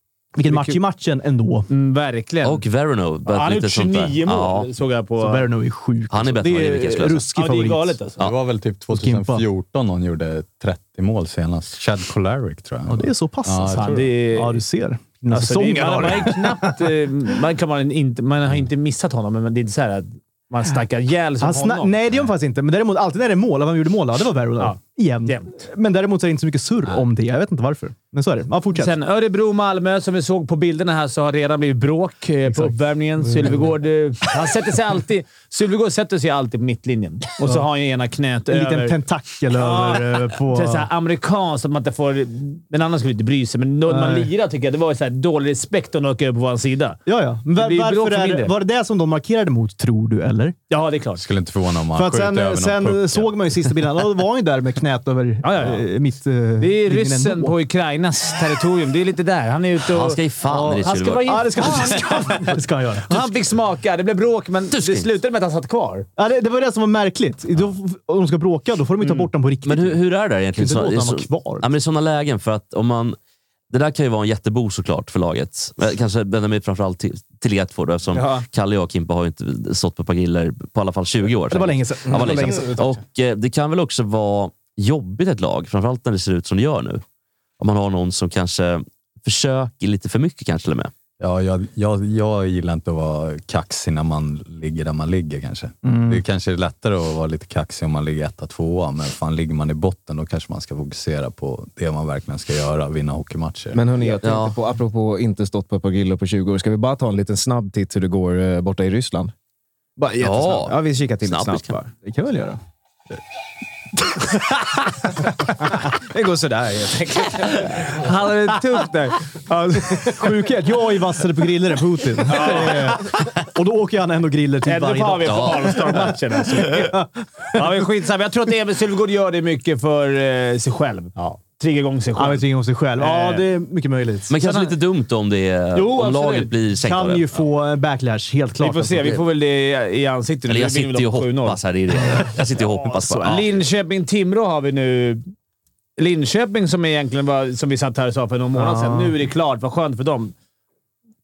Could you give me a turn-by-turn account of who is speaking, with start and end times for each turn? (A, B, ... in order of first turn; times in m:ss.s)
0:00.3-0:01.7 A
0:00.5-0:00.8 B
0:01.7-0:02.6 B
0:02.4-0:04.7 C
0:03.2-0:05.5 B
0:05.2-0:08.0 A
0:06.1-0:07.2 C
0:07.3-0:08.2 B
0:08.2-0:14.0 D
0:08.9-0:09.4 A
0:12.9-0:16.9 A
0:13.7-0:14.6 B
0:15.3-0:22.0 B
0:21.4-0:28.9 A
0:24.6-0:25.6 B
0:28.7-0:39.0 B
0:32.5-0:33.7 A
0:38.5-0:40.9 A
0:39.5-0:47.0 B
0:43.9-0:44.3 A
0:47.0-0:50.6 A
0:47.6-0:48.5 B
0:50.7-0:51.2 B
0:51.2-0:53.3 D
0:51.9-0:57.6 A
0:55.4-0:55.8 B
0:56.6-1:00.2 B
0:59.9-1:01.5 C
1:00.5-1:03.3 A
1:00.8-1:02.4 B
1:03.0-1:06.1 B
1:04.7-1:05.1 C
1:06.2-1:10.0 A
1:09.0-1:09.3 B
1:09.6-1:13.2 C
1:10.5-1:11.7 A
1:13.7-1:27.0 C
1:18.1-1:18.4 B
1:21.5-1:22.7 A
1:22.1-1:22.9 E
1:27.6-1:30.9 C
1:31.2-1:43.8 D
1:35.8-1:36.2 A
1:43.7-1:49.3 E
1:44.2-1:44.6 C
1:50.0-1:51.9 E
1:50.2-1:51.8 C
1:52.0-1:52.6 A
1:55.8-1:59.2 E
1:57.0-1:58.9 B
1:59.7-2:07.8 A
2:02.3-2:03.0 B
2:04.6-2:12.4 B
2:05.2-2:05.8 C
2:12.2-2:14.3 A
2:13.0-2:13.4 B
2:14.3-2:17.2 C
2:14.4-2:14.7 B
2:15.7-2:16.5 B
2:16.8-2:19.1 A
2:18.6-2:21.6 B
2:20.5-2:23.4 C
2:22.6-2:23.4 A
2:23.2-2:25.2 B
2:26.0-2:30.3 B
2:28.5-2:29.1 A